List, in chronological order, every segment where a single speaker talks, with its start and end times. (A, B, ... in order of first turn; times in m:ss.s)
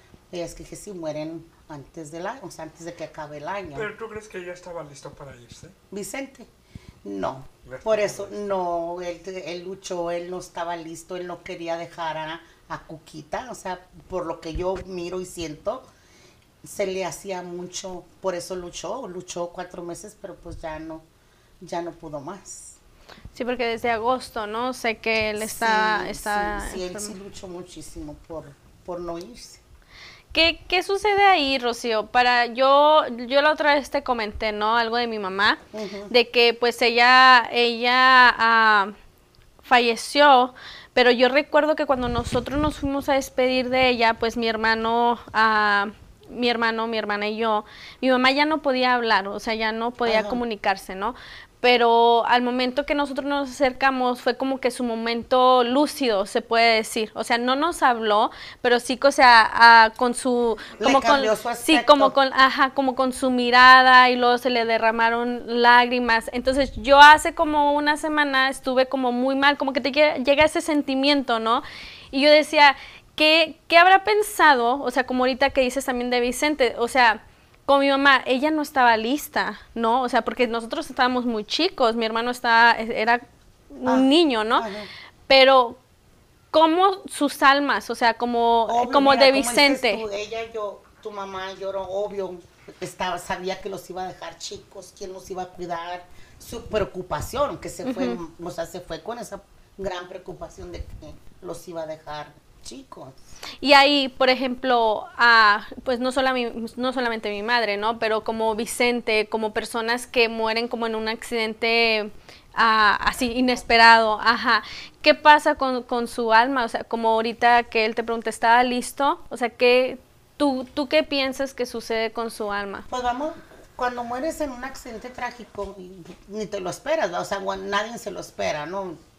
0:00.3-0:03.9 A
0:03.8-0:05.8 B
0:05.9-0:06.5 A
0:07.0-0:15.9 A
0:07.6-0:08.5 B
0:16.6-0:21.0 A
0:21.6-0:22.8 A
0:23.4-0:27.2 C
0:25.4-0:29.6 A
0:30.3-0:38.9 C
0:35.7-0:36.1 A
0:39.6-1:24.7 C
0:50.1-0:50.4 A
1:00.8-1:02.2 A
1:23.9-1:24.9 A
1:25.3-1:25.8 C
1:26.5-1:30.0 C
1:28.7-1:43.2 A
1:37.8-1:38.2 C
1:43.6-2:02.9 C
2:02.9-2:09.0 A